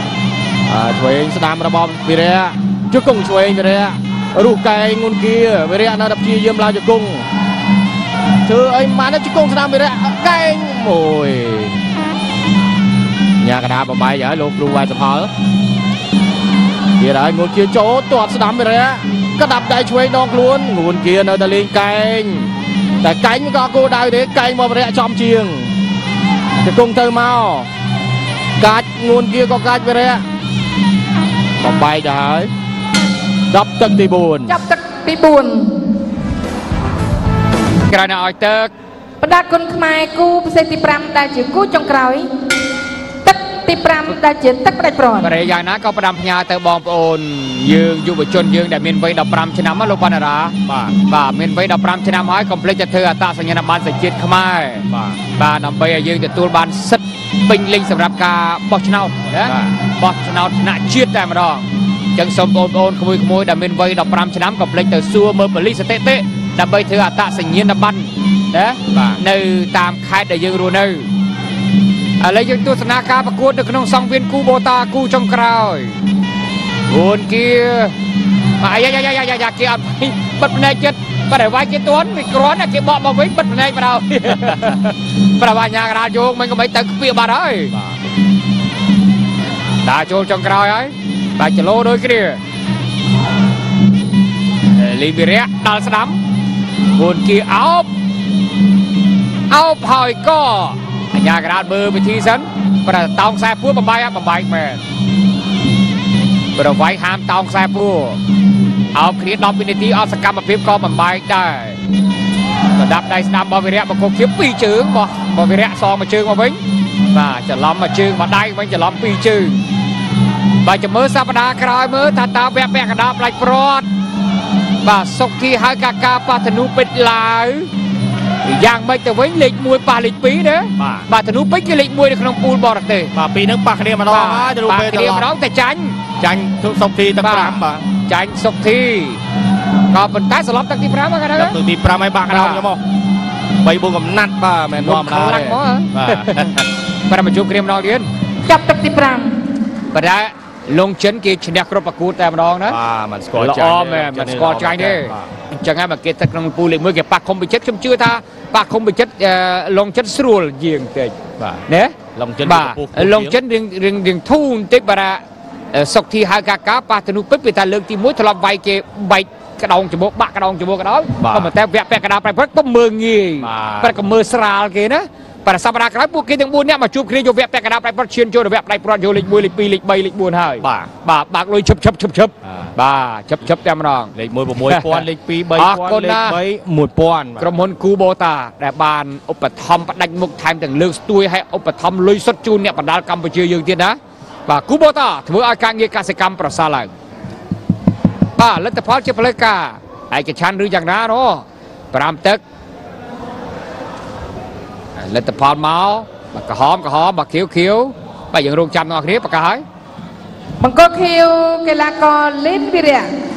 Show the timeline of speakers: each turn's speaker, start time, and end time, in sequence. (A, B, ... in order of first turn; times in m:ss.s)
0:00.6-0:07.3 A
0:08.4-0:11.8 A
0:13.4-0:15.3 A
0:17.0-0:25.7 A
0:26.6-0:27.7 A
0:28.6-0:30.2 A
0:31.6-0:32.5 A
0:33.5-0:34.6 A
0:34.5-0:35.9 B
0:37.8-0:38.7 C
0:39.2-0:42.3 B
0:43.2-0:45.3 B
0:45.2-1:11.1 C
0:50.6-0:51.0 A
0:54.9-0:55.2 A
0:59.4-0:59.7 A
1:08.9-1:09.2 A
1:12.2-1:16.0 C
1:16.9-1:17.9 C
1:18.6-1:27.7 C
1:29.8-1:32.4 C
1:34.7-1:36.2 C
1:36.9-1:37.9 C
1:39.5-1:44.8 C
1:46.5-1:48.2 C
1:48.9-1:51.8 C
1:52.7-1:56.6 C
1:57.1-1:59.6 C
2:00.6-2:03.9 C
2:04.8-2:07.7 C
2:08.4-2:13.1 C
2:10.8-2:11.1 A
2:13.1-2:15.3 A
2:14.0-2:16.0 C
2:16.2-2:17.8 A
2:17.2-2:19.2 C
2:19.9-2:21.6 C
2:21.4-2:22.8 A
2:22.3-2:22.6 C
2:23.6-2:26.6 A
2:24.8-2:26.5 C
2:27.1-2:28.1 C
2:28.4-2:29.3 B
2:29.9-2:32.8 C
2:32.7-2:35.3 A
2:33.3-2:41.2 C
2:41.7-2:45.2 C
2:42.1-2:43.4 A
2:45.7-3:04.1 C
2:51.2-2:51.5 A
2:53.4-2:54.1 A
3:00.6-3:00.9 A
3:04.1-3:07.5 A
3:04.6-3:06.4 C
3:07.4-3:16.9 C
3:18.4-3:22.4 C
3:25.0-3:29.6 C
3:30.6-3:33.1 B